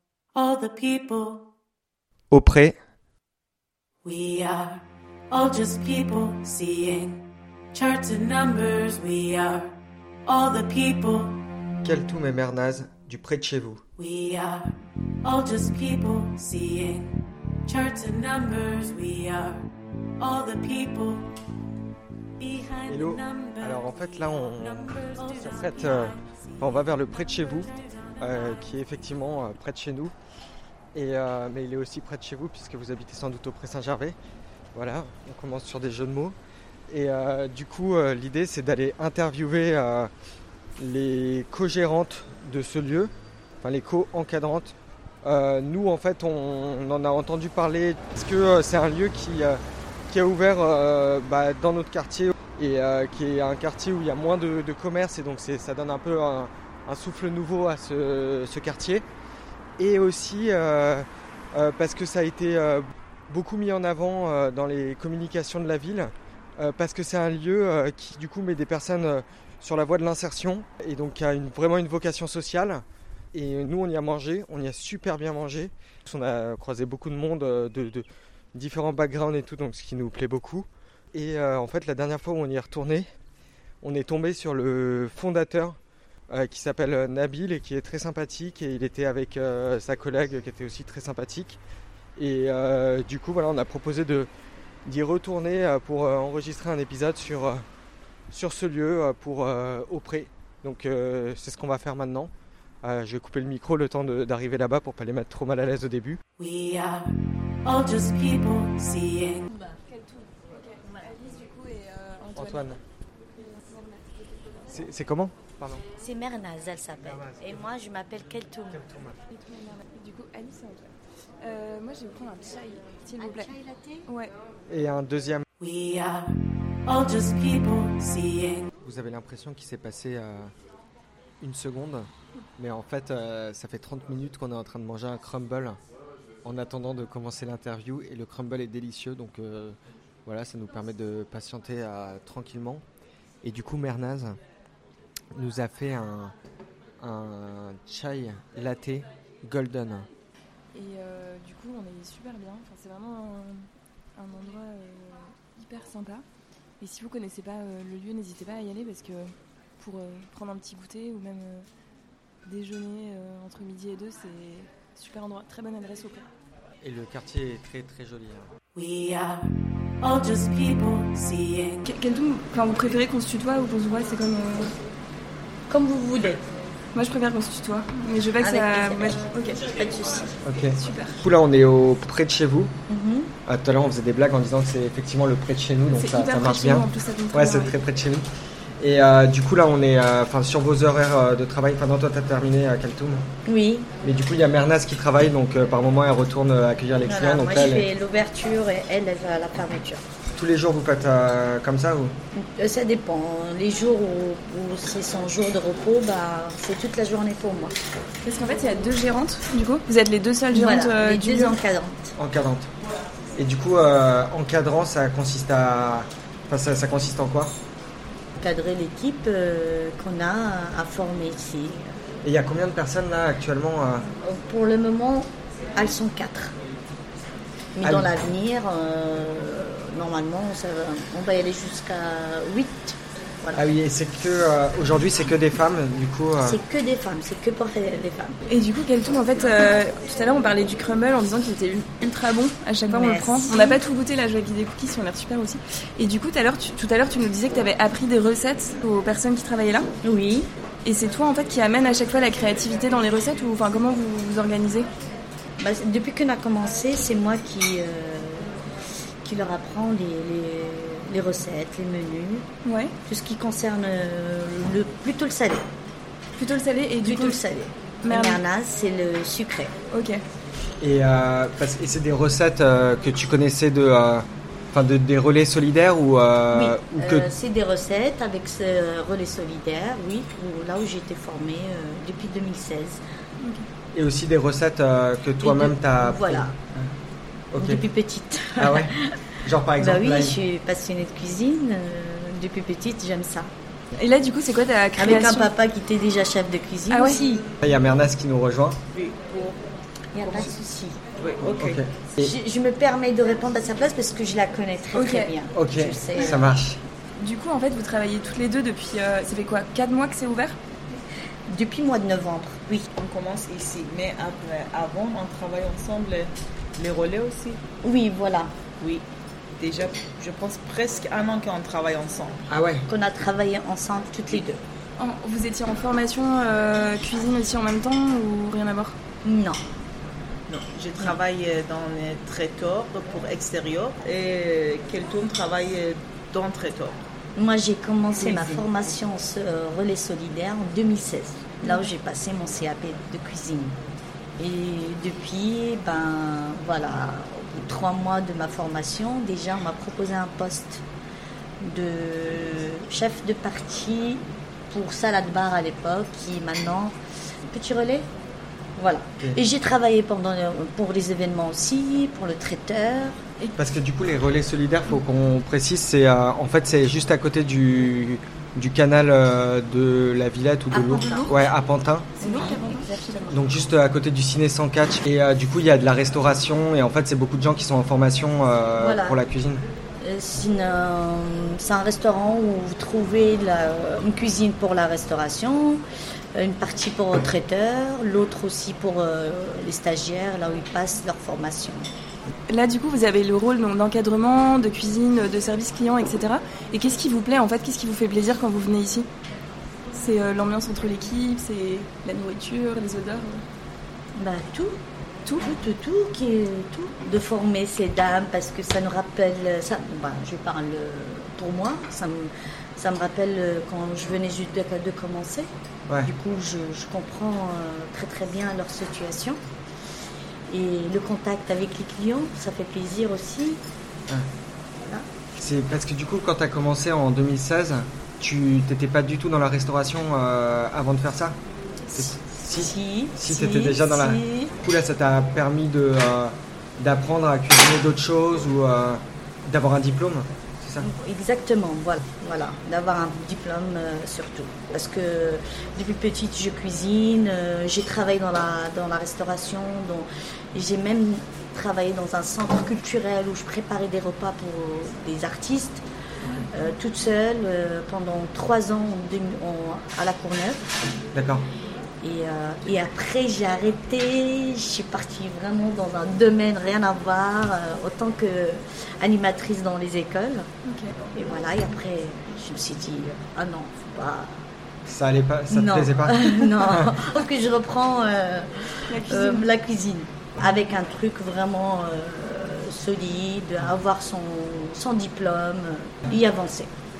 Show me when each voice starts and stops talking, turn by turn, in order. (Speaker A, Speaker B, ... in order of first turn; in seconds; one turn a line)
Speaker A: 0.3-1.5
Speaker B: 2.3-2.8
Speaker A: 4.0-7.2
Speaker A: 7.7-9.8
Speaker A: 10.2-11.4
Speaker B: 11.8-13.8
Speaker A: 14.0-21.3
Speaker A: 22.4-28.8
Speaker B: 22.9-30.1
Speaker B: 30.9-34.2
Speaker B: 34.7-36.4
Speaker B: 36.9-40.1
Speaker B: 40.8-43.1
Speaker B: 43.6-59.0
Speaker B: 59.8-83.1
Speaker B: 83.8-85.8
Speaker B: 86.3-91.6
Speaker B: 92.2-94.3
Speaker B: 94.8-97.6
Speaker B: 98.3-102.3
Speaker B: 102.8-106.2
Speaker A: 106.4-107.1
Speaker A: 107.6-109.5
Speaker C: 109.8-112.8
Speaker B: 112.3-112.8
Speaker C: 113.4-114.2
Speaker B: 114.7-115.8
Speaker D: 116.0-118.8
Speaker B: 117.1-117.6
Speaker B: 118.7-119.2
Speaker C: 119.3-123.5
Speaker D: 123.2-124.0
Speaker C: 124.1-124.3
Speaker B: 124.7-125.4
Speaker A: 125.6-126.3
Speaker A: 126.8-128.7
Speaker B: 128.8-130.5
Speaker B: 131.4-135.8
Speaker B: 136.4-142.8
Speaker B: 143.4-144.4
Speaker B: 145.3-146.3
Speaker B: 147.0-150.1
Speaker C: 150.7-156.2
Speaker C: 156.8-161.7
Speaker C: 162.4-166.3
Speaker B: 166.8-168.5
Speaker A: 168.8-169.5
Speaker A: 170.0-171.9
Speaker C: 171.8-174.7
Speaker D: 175.7-176.4
Speaker C: 176.9-179.6
Speaker D: 178.4-180.3
Speaker B: 180.4-182.7
Speaker C: 180.7-181.2
Speaker D: 182.9-183.3
Speaker B: 183.4-188.2
Speaker C: 185.9-187.8
Speaker B: 188.8-193.2
Speaker D: 193.4-193.9
Speaker B: 194.0-197.9
Speaker D: 197.0-200.0
Speaker B: 200.3-202.1
Speaker D: 202.3-207.8
Speaker C: 208.2-211.5
Speaker D: 210.5-212.1
Speaker B: 212.2-212.7
Speaker B: 213.3-217.5
Speaker D: 218.4-221.9
Speaker B: 222.2-224.1
Speaker D: 224.2-226.5
Speaker D: 227.8-233.6
Speaker B: 227.8-228.1
Speaker B: 233.5-236.6
Speaker D: 236.4-238.3
Speaker C: 238.5-249.9
Speaker D: 242.8-243.8
Speaker D: 250.0-250.5
Speaker C: 250.8-254.9
Speaker D: 255.6-258.5
Speaker D: 259.2-262.4
Speaker C: 262.6-262.9
Speaker D: 263.1-265.6
Speaker C: 266.4-267.4
Speaker D: 267.0-269.7
Speaker C: 268.0-268.4
Speaker C: 269.9-270.2
Speaker B: 270.8-277.3
Speaker D: 276.5-283.0
Speaker C: 283.4-283.6
Speaker B: 283.9-286.9
Speaker D: 285.4-286.5
Speaker B: 287.5-287.8
Speaker D: 287.6-289.1
Speaker B: 288.6-290.4
Speaker D: 289.8-293.5
Speaker C: 293.9-295.5
Speaker D: 295.0-297.4
Speaker C: 296.9-297.2
Speaker B: 297.6-298.8
Speaker E: 298.9-299.6
Speaker D: 300.1-301.0
Speaker E: 300.2-300.5
Speaker E: 301.2-301.8
Speaker B: 301.5-302.3
Speaker D: 302.2-306.5
Speaker C: 304.9-305.3
Speaker B: 305.5-306.8
Speaker E: 306.2-306.4
Speaker C: 307.1-310.6
Speaker D: 311.5-312.9
Speaker E: 313.0-317.6
Speaker D: 317.8-318.5
Speaker E: 319.6-322.4
Speaker B: 322.5-322.9
Speaker D: 322.9-324.6
Speaker C: 325.0-328.9
Speaker D: 329.2-329.6
Speaker E: 330.5-337.1
Speaker D: 337.4-343.8
Speaker E: 338.1-338.7
Speaker D: 344.4-350.8
Speaker D: 351.6-356.9
Speaker D: 357.5-358.1
Speaker D: 358.8-363.2
Speaker B: 363.6-372.1
Speaker D: 370.7-371.5
Speaker C: 372.2-373.2
Speaker D: 372.2-373.4
Speaker B: 373.3-379.6
Speaker D: 378.8-379.2
Speaker D: 380.0-385.8
Speaker D: 386.3-391.8
Speaker C: 392.5-399.1
Speaker C: 399.9-403.4
Speaker D: 404.2-404.8
Speaker D: 405.4-415.5
Speaker D: 416.0-419.4
Speaker D: 420.5-423.6
Speaker D: 424.8-425.1
Speaker B: 425.4-431.4
Speaker B: 431.9-440.9
Speaker D: 431.9-434.5
Speaker D: 440.8-455.8
Speaker D: 456.5-460.6
Speaker B: 461.1-461.4
Speaker D: 462.0-470.5
Speaker C: 470.6-470.9
Speaker D: 471.1-474.4
Speaker B: 474.9-476.9
Speaker D: 475.5-486.7
Speaker C: 478.9-479.5